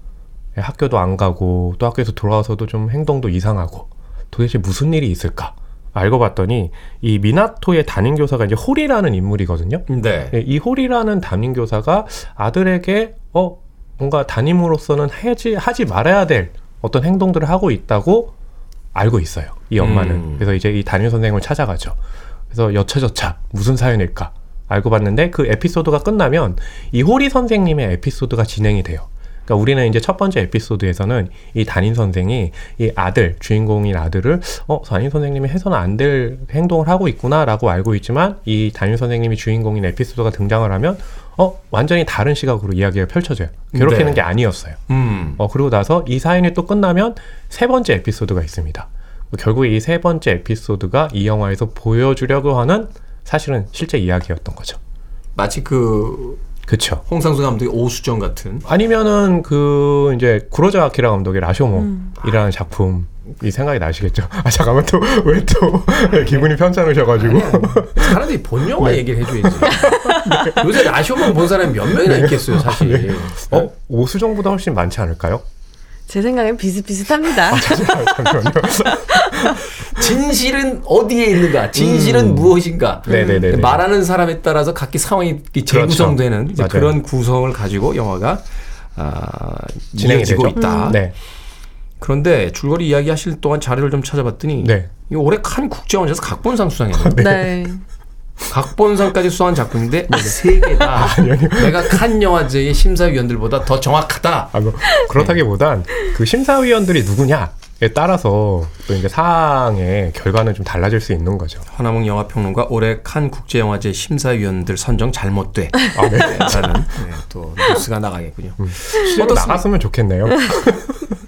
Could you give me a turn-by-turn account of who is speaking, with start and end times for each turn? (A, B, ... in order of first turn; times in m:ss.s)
0:00.6-0:18.3 A
0:09.9-0:10.4 B
0:19.0-0:22.0 A
0:19.8-0:20.5 B
0:22.5-0:44.8 A
0:43.7-0:44.2 B
0:44.9-0:45.4 B
0:45.4-0:54.8 A
0:55.4-0:56.4 B
0:56.7-0:57.0 A
0:57.1-0:58.7 B
0:58.6-1:08.2 A
1:06.2-1:06.5 B
1:07.2-1:13.7 B
1:08.8-1:10.6 A
1:09.7-1:10.6 C
1:12.1-1:15.4 A
1:16.1-1:18.3 C
1:17.5-1:19.6 A
1:19.1-1:19.5 C
1:19.9-1:28.4 B
1:21.8-1:22.5 A
1:23.1-1:23.8 A
1:23.1-1:23.4 C
1:25.7-1:27.0 A
1:29.0-1:31.0 B
1:30.0-1:31.2 A
1:30.6-1:31.0 C
1:32.0-1:37.2 B
1:34.6-1:34.9 A
1:37.0-1:37.6 A
1:37.2-1:37.8 C
1:38.5-1:45.4 B
1:40.2-1:42.0 A
1:44.5-1:51.6 A
1:51.7-1:59.7 B
1:56.0-1:56.8 A
1:58.6-2:01.0 A